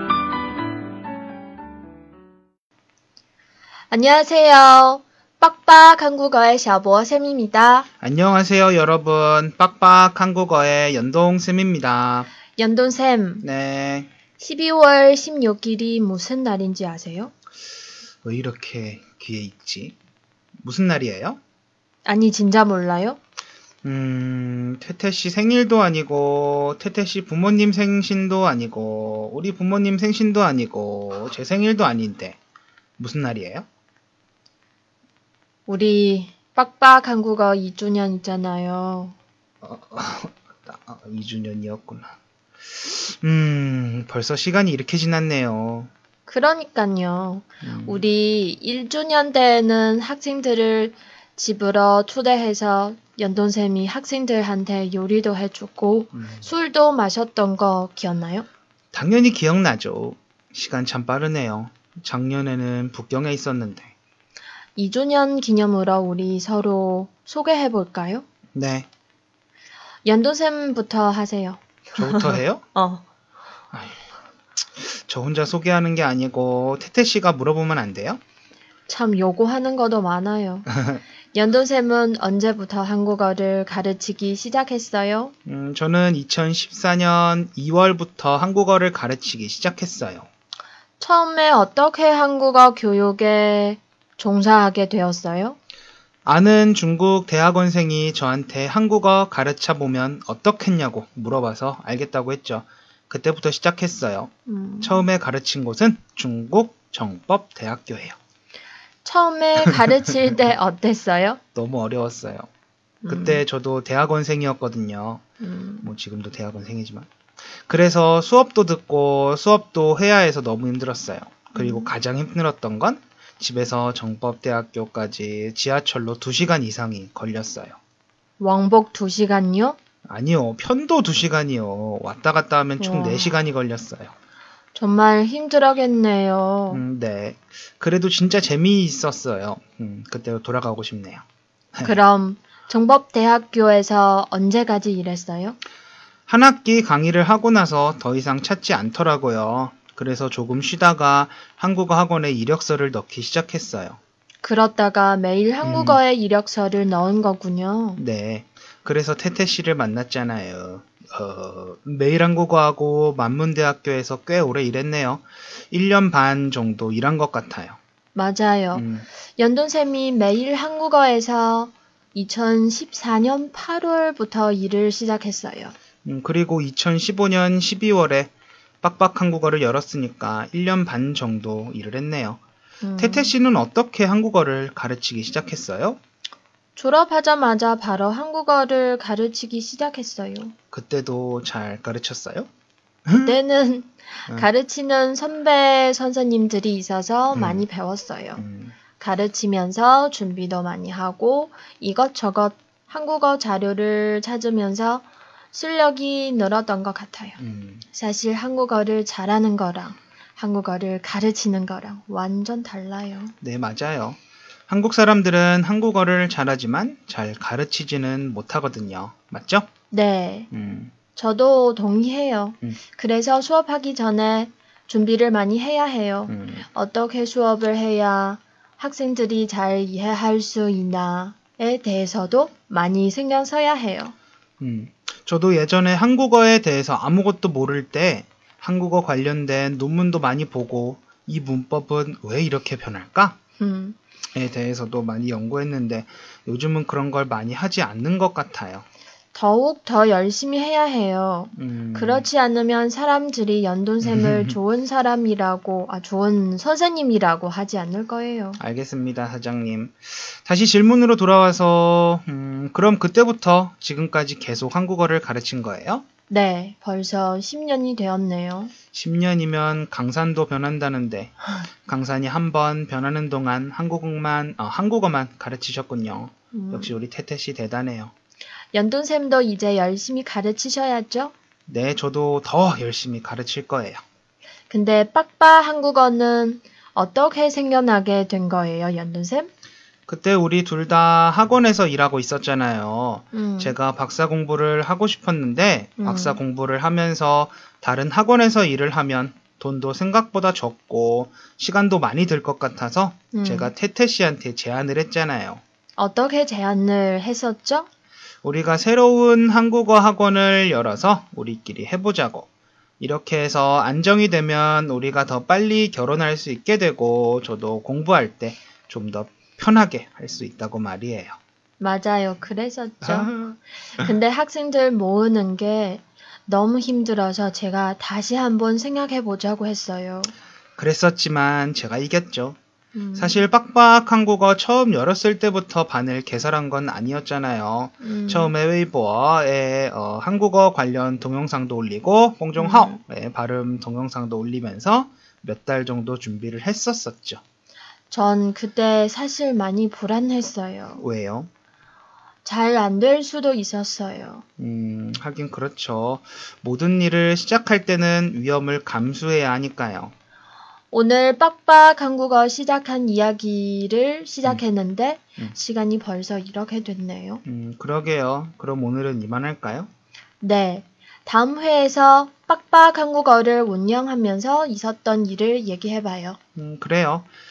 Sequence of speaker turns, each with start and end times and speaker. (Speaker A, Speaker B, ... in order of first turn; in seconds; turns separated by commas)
Speaker A: 3.9-7.9, Speaker B: 8.0-12.3, Speaker A: 12.6-13.4, Speaker B: 13.4-14.1, Speaker A: 14.4-17.3, Speaker B: 18.2-20.0, Speaker B: 20.6-21.4, Speaker A: 22.1-23.2, Speaker B: 23.8-32.4, Speaker B: 33.0-33.7, Speaker A: 35.7-39.2, Speaker B: 39.6-45.9, Speaker A: 46.3-58.5, Speaker B: 47.6-48.0, Speaker B: 56.1-56.5, Speaker B: 58.9-63.9, Speaker A: 64.8-68.2, Speaker B: 68.5-68.9, Speaker A: 70.0-73.0, Speaker B: 72.0-72.6, Speaker B: 73.7-74.0, Speaker B: 74.8-78.2, Speaker A: 78.9-80.7, Speaker B: 80.7-81.0, Speaker A: 81.3-85.3, Speaker B: 85.5-90.3, Speaker A: 91.0-95.6, Speaker B: 96.2-108.2, Speaker A: 104.5-105.1, Speaker A: 109.0-111.4, Speaker B: 111.5-112.5, Speaker A: 113.0-113.4, Speaker B: 113.1-115.2, Speaker A: 115.4-115.9, Speaker B: 115.8-127.8, Speaker A: 121.5-121.9, Speaker A: 128.4-129.8, Speaker B: 130.1-134.1, Speaker A: 132.8-133.4, Speaker A: 134.8-136.8, Speaker B: 136.7-142.0, Speaker A: 141.8-145.6, Speaker B: 146.3-154.0, Speaker A: 154.4-158.0, Speaker B: 155.6-156.0, Speaker B: 158.0-167.8, Speaker A: 168.2-175.8, Speaker B: 168.7-169.1, Speaker B: 176.1-182.4, Speaker A: 182.8-183.3, Speaker B: 183.0-186.0, Speaker A: 186.8-190.5, Speaker B: 190.7-192.5, Speaker B: 193.1-193.4, Speaker A: 193.2-198.4, Speaker B: 197.3-197.7, Speaker B: 198.4-198.8, Speaker A: 199.0-207.4, Speaker B: 207.4-207.8, Speaker A: 207.9-213.3, Speaker B: 213.4-219.7, Speaker A: 219.9-220.5, Speaker B: 220.5-220.9, Speaker A: 221.1-234.1, Speaker B: 226.3-226.7, Speaker B: 234.6-243.4, Speaker A: 243.6-244.0, Speaker B: 244.3-248.8, Speaker A: 249.3-258.6, Speaker B: 251.6-252.3, Speaker B: 254.0-254.6, Speaker B: 258.6-266.1, Speaker A: 266.3-268.7, Speaker B: 268.9-278.1, Speaker A: 276.5-277.0, Speaker A: 278.7-281.3, Speaker B: 281.7-284.0, Speaker A: 284.7-289.5, Speaker B: 290.1-305.6, Speaker A: 293.3-293.8, Speaker A: 296.0-296.4, Speaker A: 303.3-303.7, Speaker A: 306.0-307.9, Speaker B: 308.4-312.5, Speaker B: 313.0-321.4, Speaker A: 321.8-330.3, Speaker B: 323.0-323.4, Speaker B: 330.8-332.6, Speaker A: 332.9-333.5, Speaker B: 333.1-347.4, Speaker A: 338.0-338.5, Speaker A: 342.6-343.0, Speaker A: 348.1-351.0, Speaker B: 351.0-351.5, Speaker A: 352.4-354.4, Speaker B: 354.6-360.1, Speaker A: 360.9-367.4, Speaker B: 367.4-369.9, Speaker A: 370.4-376.4, Speaker B: 376.6-377.3